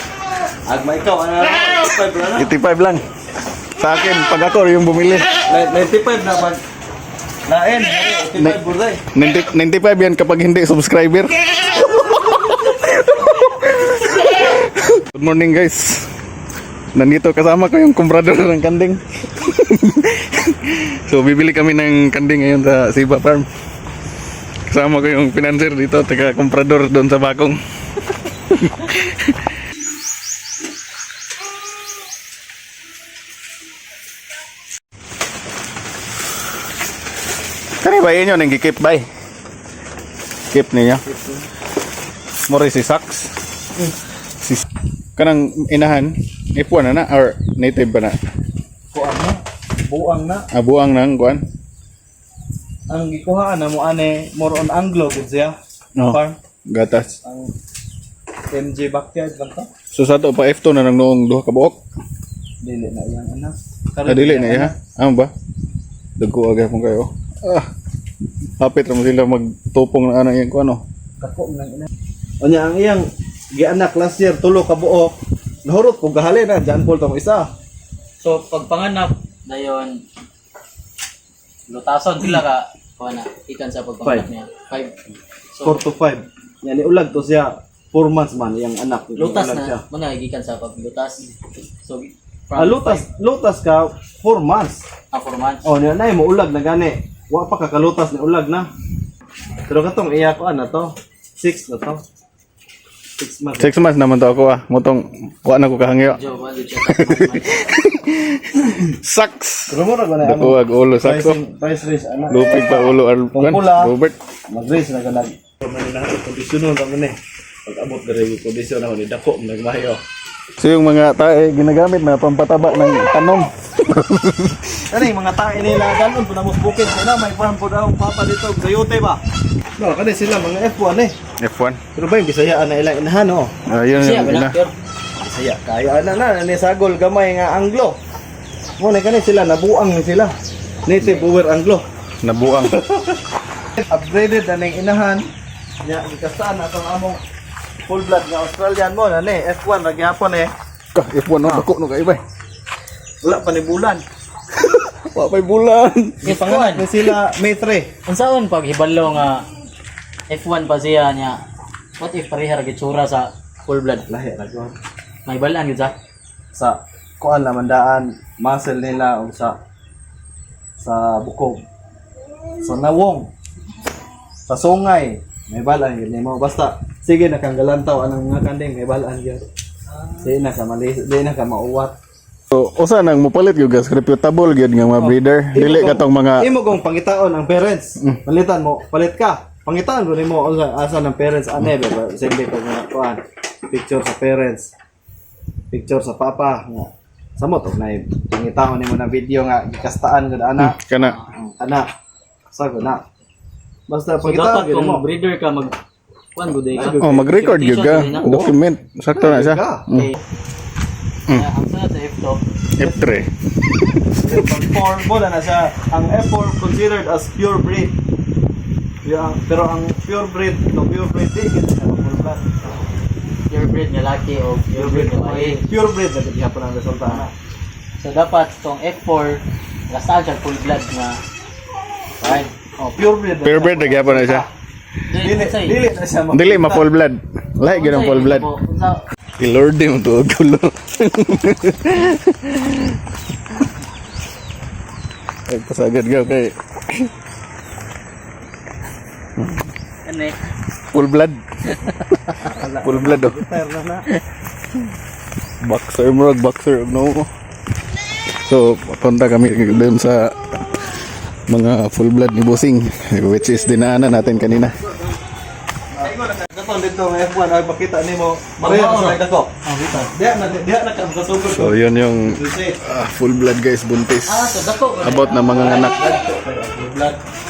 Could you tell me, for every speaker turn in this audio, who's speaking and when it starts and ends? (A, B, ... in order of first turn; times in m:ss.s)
0:00.7-0:02.5 A
0:02.4-0:03.0 B
0:03.8-0:05.3 B
0:05.5-0:06.6 A
0:07.5-0:09.0 A
0:09.2-0:11.4 B
0:12.7-0:16.0 B
0:17.0-0:23.5 B
0:24.7-0:27.6 B
0:28.5-0:29.3 B
0:37.8-0:39.1 B
0:40.5-0:41.0 B
0:41.1-0:41.4 A
0:42.5-0:43.3 B
0:45.2-0:48.2 B
0:48.9-0:50.5 A
0:50.5-0:51.4 B
0:52.9-0:55.6 A
0:56.0-0:57.2 B
0:56.1-0:56.4 A
0:57.2-0:57.5 A
0:58.5-0:59.7 A
0:59.9-1:01.8 B
1:02.6-1:04.8 A
1:04.1-1:05.3 B
1:06.2-1:07.7 B
1:08.6-1:10.8 B
1:11.2-1:11.9 A
1:12.4-1:17.5 A
1:18.2-1:20.0 C
1:21.7-1:25.0 C
1:24.0-1:24.3 A
1:25.6-1:25.8 C
1:25.6-1:29.8 A
1:29.2-1:31.3 C
1:31.8-1:33.0 C
1:32.6-1:34.8 A
1:35.1-1:35.7 C
1:35.6-1:38.7 A
1:39.7-1:42.0 A
1:43.2-1:43.8 A
1:43.6-1:46.2 B
1:46.0-1:47.7 C
1:46.9-1:51.4 B
1:49.7-1:53.9 A
1:52.3-1:54.2 B
1:54.5-1:57.2 A
1:57.7-2:00.0 A
2:00.6-2:04.8 B
2:04.9-2:09.2 A
2:09.8-2:11.1 A
2:11.4-2:11.8 B
2:12.0-2:13.5 A
2:13.7-2:14.6 B
2:14.0-2:14.7 C
2:15.2-2:18.0 A
2:18.8-2:21.8 A
2:22.2-2:22.8 B
2:22.6-2:23.0 A
2:23.8-2:25.3 A
2:25.8-2:27.2 A
2:27.9-2:30.5 A
2:30.9-2:32.2 B
2:33.2-2:34.0 A
2:34.7-2:36.2 B
2:36.2-2:37.9 A
2:36.2-2:37.0 C
2:38.1-2:39.4 C
2:40.3-2:41.4 C
2:42.0-2:44.1 C
2:44.1-2:44.8 A
2:45.3-2:45.9 C
2:46.5-2:49.6 A
2:50.8-2:51.6 A
2:52.6-2:53.3 A
2:54.5-2:59.4 A
3:00.2-3:02.0 A
3:02.5-3:06.5 B
3:05.5-3:14.7 A
3:15.7-3:20.8 A
3:20.6-3:21.2 B
3:21.0-3:21.3 C
3:21.6-3:21.9 A
3:22.5-3:23.0 A
3:23.9-3:25.1 A
3:24.2-3:25.8 C
3:26.4-3:28.6 C
3:26.7-3:27.3 A
3:26.9-3:30.1 B
3:29.2-3:29.9 A
3:29.9-3:30.2 C
3:31.3-3:32.4 C
3:32.8-3:33.3 B
3:32.8-3:33.1 A
3:34.2-3:37.9 A
3:39.0-3:42.5 A
3:43.5-3:45.6 C
3:44.7-3:47.3 A
3:48.0-3:51.2 C
3:52.2-3:52.5 C
3:52.2-3:54.5 A
3:53.4-3:54.4 B
3:55.1-3:55.8 C
3:55.2-3:56.9 A
3:56.3-3:58.5 B
3:57.6-3:59.0 C
3:59.4-4:03.0 B
4:05.5-4:07.1 B
4:09.4-4:09.7 B
4:10.0-4:10.4 C
4:10.9-4:13.4 B
4:12.4-4:14.1 A
4:15.6-4:17.3 B
4:18.4-4:20.3 B
4:21.5-4:24.8 B
4:25.9-4:29.5 A
4:28.6-4:30.1 C
4:30.1-4:32.8 A
4:31.5-4:36.0 B
4:34.3-4:36.1 C
4:35.4-4:37.2 A